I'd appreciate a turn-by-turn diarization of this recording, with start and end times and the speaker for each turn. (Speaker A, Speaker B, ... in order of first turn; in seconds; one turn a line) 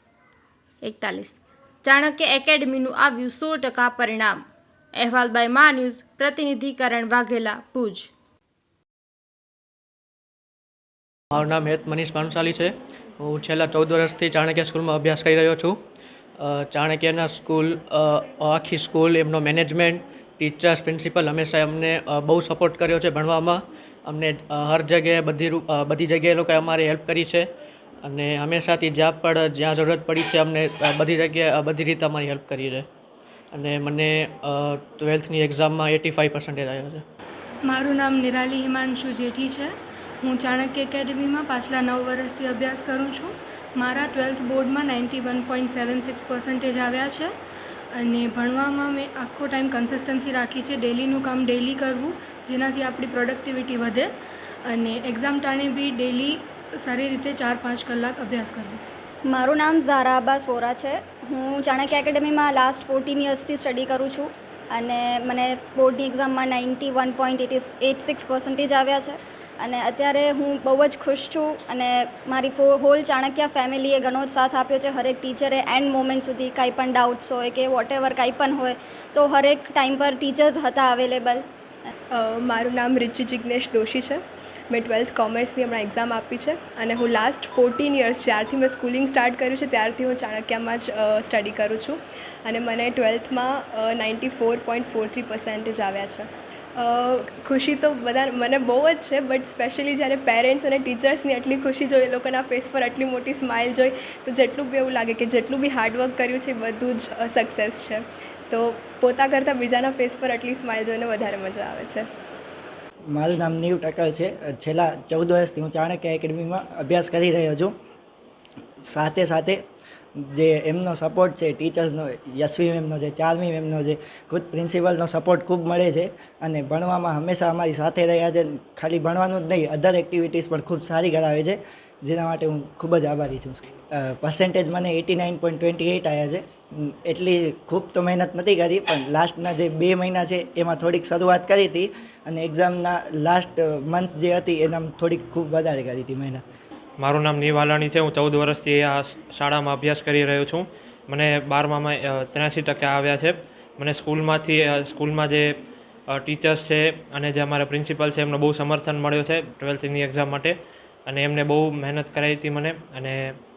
Speaker A: 0.8-8.1
Speaker B: 11.3-15.8
Speaker B: 16.4-27.5
Speaker B: 28.0-32.9
Speaker B: 33.5-37.0
Speaker C: 37.6-47.3
Speaker C: 47.9-54.1
Speaker C: 54.7-58.8
Speaker D: 59.3-81.4
Speaker E: 82.1-96.3
Speaker E: 96.8-112.0
Speaker F: 113.1-117.7
Speaker F: 118.8-119.6
Speaker F: 120.2-146.4
Speaker G: 147.0-155.5
Speaker G: 156.1-163.3